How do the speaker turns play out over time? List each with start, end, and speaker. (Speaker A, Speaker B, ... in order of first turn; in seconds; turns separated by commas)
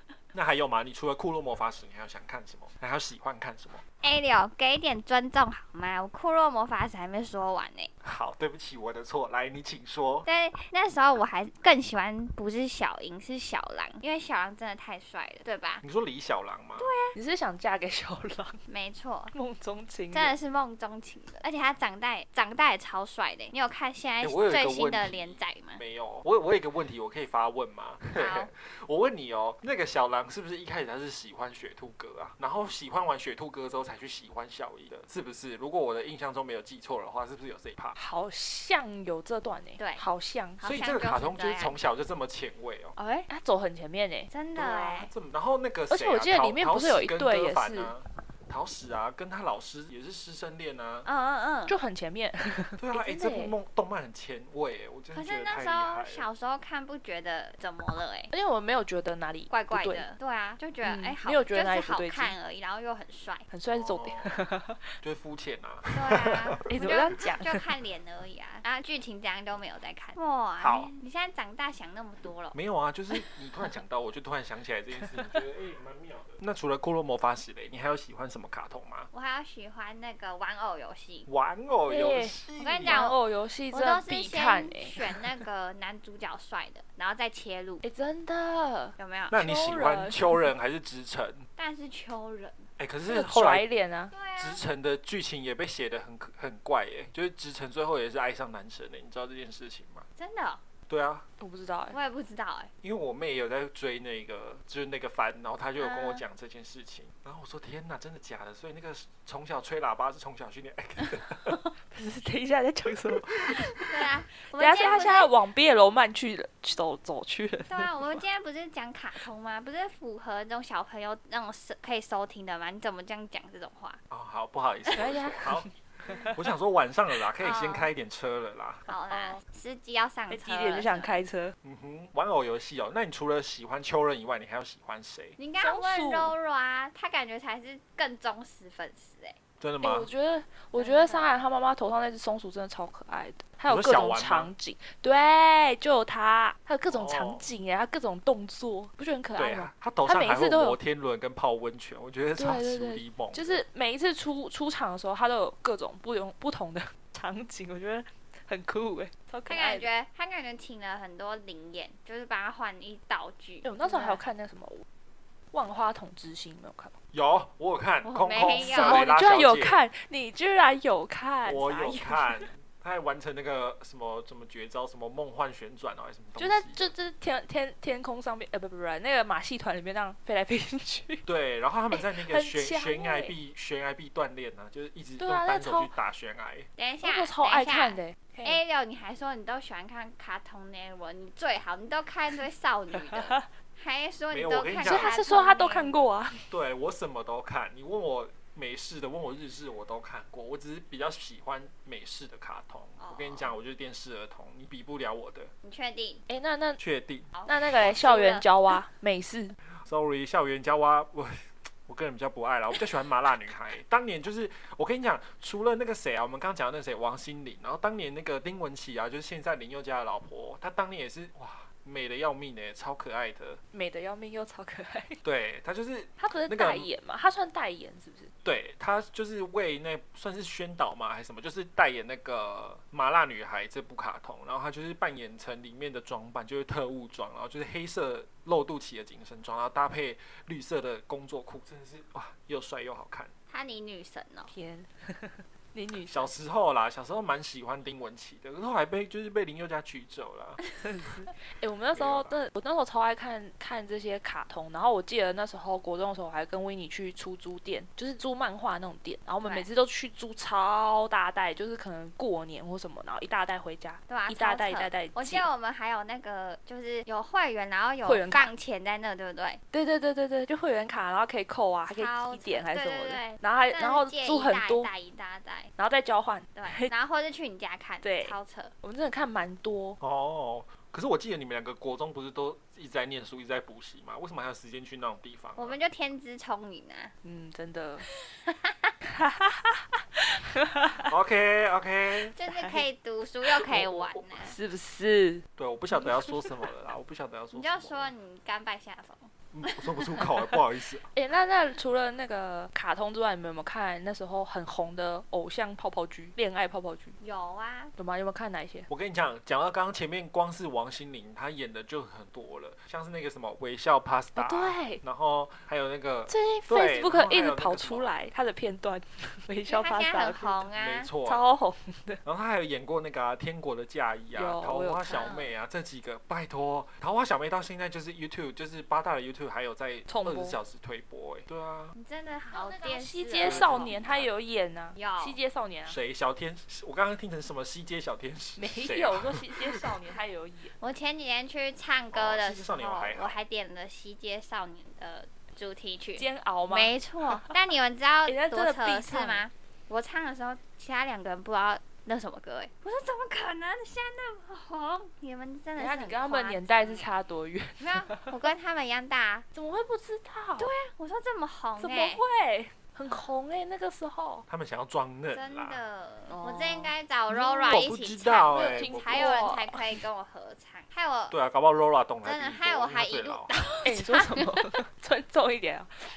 Speaker A: 0.3-3.8, Speaker B: 4.0-7.9, Speaker A: 8.0-10.3, Speaker B: 10.3-15.8, Speaker A: 15.8-16.9, Speaker B: 16.8-17.1, Speaker C: 17.1-18.6, Speaker B: 18.7-19.3, Speaker C: 19.3-20.4, Speaker B: 20.1-25.8, Speaker A: 24.2-38.0, Speaker B: 28.2-28.5, Speaker C: 38.0-40.6, Speaker B: 39.8-40.0, Speaker B: 40.6-41.8, Speaker A: 40.6-43.0, Speaker B: 43.0-43.3, Speaker C: 43.3-44.3, Speaker B: 44.3-45.1, Speaker A: 44.6-51.1, Speaker C: 45.9-47.9, Speaker B: 51.0-51.7, Speaker C: 51.7-53.5, Speaker A: 52.8-56.3, Speaker B: 55.1-58.3, Speaker C: 58.3-60.1, Speaker B: 59.5-63.5, Speaker C: 60.8-62.4, Speaker C: 63.5-64.8, Speaker A: 63.7-64.4, Speaker A: 65.0-66.6, Speaker B: 65.9-72.6, Speaker C: 66.7-67.6, Speaker A: 70.6-70.9, Speaker A: 72.5-79.1, Speaker C: 75.0-75.4, Speaker B: 79.1-81.3, Speaker A: 81.3-83.0, Speaker C: 81.9-85.2, Speaker B: 82.6-87.8, Speaker C: 87.8-90.5, Speaker B: 89.0-89.4, Speaker A: 89.3-91.5, Speaker B: 91.6-92.7, Speaker A: 92.8-93.7, Speaker C: 93.1-94.1, Speaker B: 94.1-94.6, Speaker A: 94.4-100.1, Speaker B: 100.2-100.6, Speaker A: 100.9-101.2, Speaker C: 101.4-102.0, Speaker B: 101.9-102.7, Speaker A: 102.8-111.5, Speaker B: 105.8-106.2, Speaker C: 111.9-118.2, Speaker A: 112.9-113.5, Speaker B: 113.8-115.3, Speaker B: 117.7-124.0, Speaker A: 124.1-128.9, Speaker C: 124.9-126.4, Speaker B: 127.4-127.9, Speaker B: 128.9-131.2, Speaker C: 129.1-129.3, Speaker C: 130.3-131.6, Speaker A: 131.6-135.4, Speaker B: 135.4-139.4, Speaker C: 135.6-136.3, Speaker A: 139.6-140.1, Speaker C: 139.8-150.8, Speaker B: 140.8-141.4, Speaker A: 143.7-144.5, Speaker A: 146.9-147.5, Speaker A: 149.4-153.6, Speaker C: 152.4-159.9, Speaker B: 159.5-164.2, Speaker C: 163.6-164.8, Speaker C: 165.5-166.9, Speaker A: 167.1-169.8, Speaker B: 168.0-169.0, Speaker C: 168.6-172.5, Speaker A: 171.4-176.9, Speaker C: 176.4-181.2, Speaker A: 181.3-186.7, Speaker C: 181.9-183.3, Speaker C: 185.2-185.9, Speaker B: 186.8-196.0, Speaker C: 187.0-188.6, Speaker C: 193.1-193.5, Speaker A: 194.3-195.2, Speaker C: 194.8-196.4, Speaker A: 196.3-205.5, Speaker B: 203.0-203.5, Speaker B: 205.6-206.2, Speaker C: 206.3-206.8, Speaker A: 206.8-208.0, Speaker B: 207.3-208.5, Speaker C: 207.5-209.6, Speaker A: 209.8-223.6, Speaker C: 223.7-225.2, Speaker A: 225.2-226.9, Speaker C: 226.2-228.3, Speaker A: 228.4-243.3, Speaker B: 243.5-244.5, Speaker C: 244.5-246.3, Speaker A: 246.1-250.6, Speaker C: 250.8-265.5, Speaker A: 251.9-252.4, Speaker B: 259.4-259.7, Speaker B: 264.1-269.6, Speaker C: 268.1-268.5, Speaker C: 269.7-274.9, Speaker B: 271.9-275.7, Speaker C: 275.8-276.9, Speaker B: 276.6-278.7, Speaker C: 278.0-280.0, Speaker A: 280.0-285.8, Speaker B: 285.6-287.1, Speaker C: 287.2-288.1, Speaker B: 288.3-288.9, Speaker C: 289.1-291.1, Speaker A: 291.1-292.3, Speaker B: 292.4-294.6, Speaker C: 292.5-292.9, Speaker A: 293.7-294.4, Speaker C: 294.4-296.7, Speaker A: 295.6-298.1, Speaker B: 297.5-300.1, Speaker A: 299.5-301.1, Speaker C: 301.1-307.2, Speaker B: 307.2-307.9, Speaker C: 308.0-308.9, Speaker A: 308.9-318.1, Speaker C: 314.4-315.0, Speaker C: 316.3-320.7, Speaker B: 319.7-321.1, Speaker A: 320.8-321.5, Speaker C: 321.3-322.2, Speaker A: 322.2-331.9, Speaker C: 324.4-325.3, Speaker B: 325.1-325.5, Speaker C: 330.1-330.6, Speaker B: 331.9-334.0, Speaker C: 332.5-336.0, Speaker A: 333.4-334.3, Speaker B: 334.9-335.4, Speaker A: 335.9-339.9, Speaker C: 338.6-340.8, Speaker B: 340.8-357.1, Speaker A: 342.1-343.4, Speaker C: 346.2-347.5, Speaker C: 348.2-349.4, Speaker C: 355.8-358.4, Speaker B: 357.8-359.5, Speaker C: 359.5-360.7, Speaker B: 360.6-362.2, Speaker C: 361.8-364.5, Speaker A: 364.5-365.8, Speaker B: 365.3-371.4, Speaker C: 366.3-367.7, Speaker A: 367.6-369.4, Speaker C: 368.5-370.0, Speaker A: 371.3-373.5, Speaker B: 372.2-374.8, Speaker C: 373.8-375.9